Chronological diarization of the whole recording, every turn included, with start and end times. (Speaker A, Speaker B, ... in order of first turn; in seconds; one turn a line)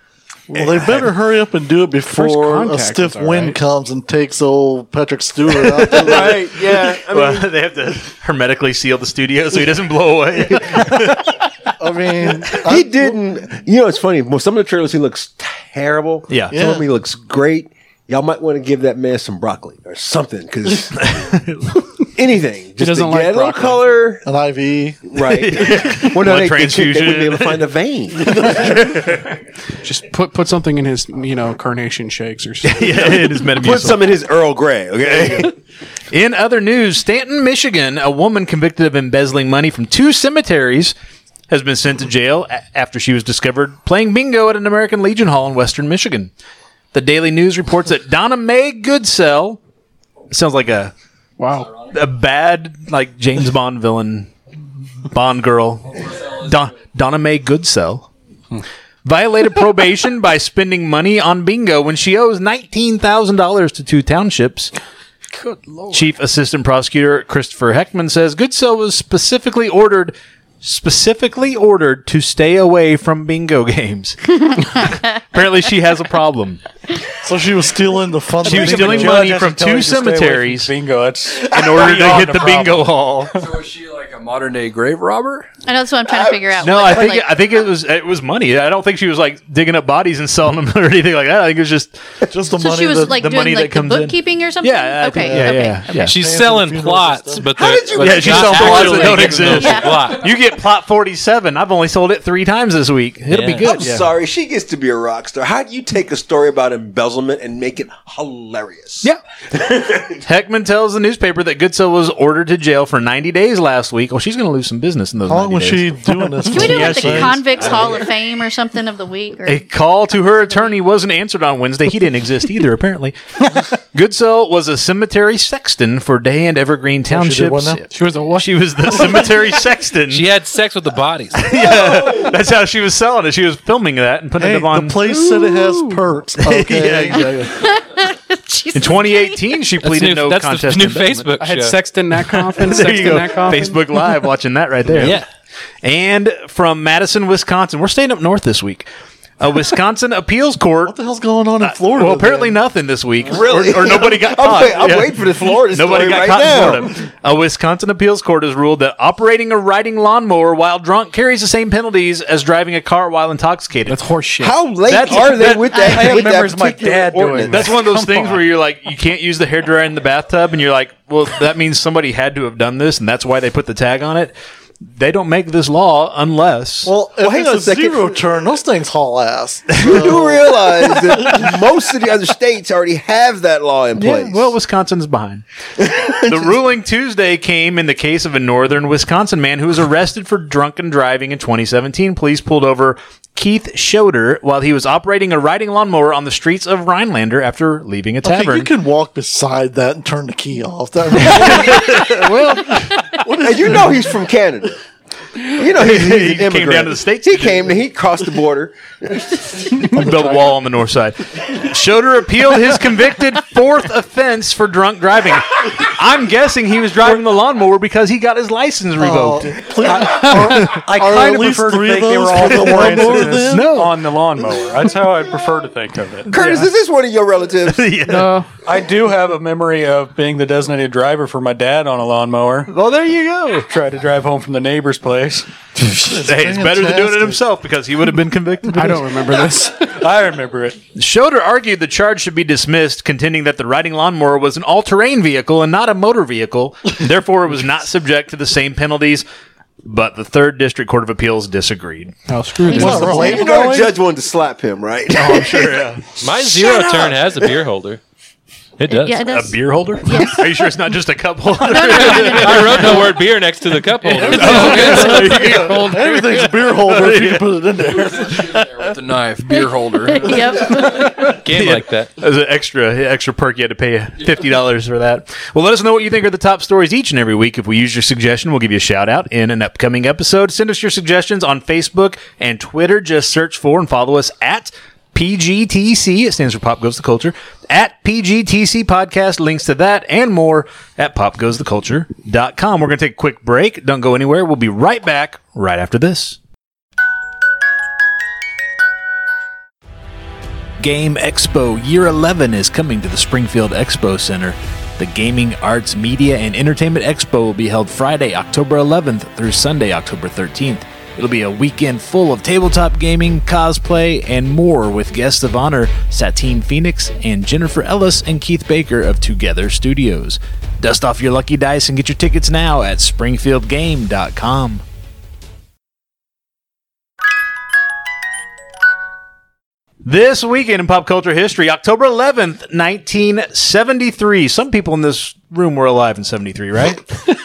Speaker A: 0.5-6.5
Speaker B: 0.5-1.0
Speaker C: 2.1-3.6
Speaker D: 5.7-11.3
Speaker B: 5.9-7.5
Speaker A: 11.8-13.2
Speaker B: 12.5-21.1
Speaker D: 16.3-16.6
Speaker A: 16.5-16.9
Speaker D: 20.9-21.8
Speaker B: 22.1-24.2
Speaker C: 22.8-23.8
Speaker A: 24.2-25.1
Speaker B: 25.1-28.9
Speaker D: 25.2-27.6
Speaker D: 28.4-29.2
Speaker C: 29.8-33.1
Speaker D: 32.6-34.0
Speaker B: 33.0-35.5
Speaker D: 36.1-40.9
Speaker D: 41.5-46.3
Speaker D: 46.9-49.6
Speaker D: 50.3-50.9
Speaker C: 51.4-51.7
Speaker D: 51.9-54.3
Speaker D: 55.1-58.1
Speaker D: 59.0-64.7
Speaker D: 65.9-76.6
Speaker A: 77.2-79.3
Speaker E: 78.4-83.0
Speaker D: 78.4-80.7
Speaker D: 81.5-83.3
Speaker F: 83.3-85.5
Speaker G: 85.7-87.3
Speaker B: 86.1-87.0
Speaker D: 86.6-92.0
Speaker A: 92.3-93.2
Speaker G: 92.5-96.1
Speaker D: 93.1-96.1
Speaker A: 95.2-97.5
Speaker H: 96.0-100.2
Speaker B: 97.5-99.7
Speaker D: 98.0-104.1
Speaker G: 99.5-100.1
Speaker H: 103.3-103.7
Speaker B: 103.6-110.2
Speaker D: 110.2-115.9
Speaker A: 115.3-117.4
Speaker G: 116.4-119.7
Speaker D: 116.5-118.0
Speaker D: 119.4-123.2
Speaker G: 120.4-120.7
Speaker D: 123.7-130.3
Speaker A: 127.1-127.9
Speaker C: 127.9-129.3
Speaker H: 130.1-131.5
Speaker D: 131.3-135.2
Speaker B: 131.5-132.4
Speaker A: 134.4-137.6
Speaker C: 135.1-136.0
Speaker D: 136.4-137.5
Speaker G: 137.6-139.4
Speaker D: 138.7-141.3
Speaker H: 139.8-141.8
Speaker C: 141.4-144.0
Speaker D: 142.6-145.2
Speaker B: 144.9-145.2
Speaker D: 145.8-148.9
Speaker D: 149.4-150.9
Speaker A: 150.8-152.6
Speaker D: 151.6-164.0
Speaker B: 153.2-157.0
Speaker C: 163.8-164.6
Speaker B: 164.4-167.7
Speaker D: 164.9-165.9
Speaker E: 165.1-168.3
Speaker G: 165.7-166.1
Speaker C: 166.1-166.4
Speaker C: 167.3-167.7
Speaker D: 167.5-174.3
Speaker D: 174.9-176.9
Speaker A: 176.8-181.5
Speaker B: 177.2-178.2
Speaker B: 179.8-184.5
Speaker D: 184.0-185.4
Speaker B: 185.8-186.5
Speaker D: 186.1-198.7
Speaker A: 198.2-202.6
Speaker D: 201.2-202.9
Speaker A: 203.2-204.1
Speaker B: 203.3-204.8
Speaker B: 205.5-209.7
Speaker D: 205.6-207.6
Speaker D: 209.9-219.6
Speaker A: 210.0-210.5
Speaker A: 219.0-223.7
Speaker E: 219.8-226.4
Speaker D: 220.3-220.8
Speaker D: 222.6-223.9
Speaker B: 226.3-227.9
Speaker D: 227.7-228.3
Speaker C: 228.1-228.5
Speaker E: 228.6-232.7
Speaker D: 232.7-233.7
Speaker E: 233.7-235.5
Speaker A: 236.0-237.4
Speaker D: 236.2-239.1
Speaker C: 238.7-239.9
Speaker E: 239.8-240.8
Speaker D: 240.9-249.2
Speaker D: 249.8-252.1
Speaker C: 252.3-253.4
Speaker G: 252.7-253.5
Speaker A: 252.7-253.9
Speaker B: 253.1-257.6
Speaker D: 255.1-256.1
Speaker H: 256.2-258.0
Speaker H: 258.8-259.3
Speaker G: 258.9-260.6
Speaker D: 259.2-263.0
Speaker G: 261.7-263.1
Speaker H: 261.8-264.9
Speaker C: 264.1-266.5
Speaker A: 264.1-268.7
Speaker D: 264.3-267.6
Speaker F: 268.2-270.8
Speaker G: 269.5-271.3
Speaker H: 271.2-272.1
Speaker D: 271.5-296.4
Speaker D: 300.8-324.8
Speaker D: 330.0-337.2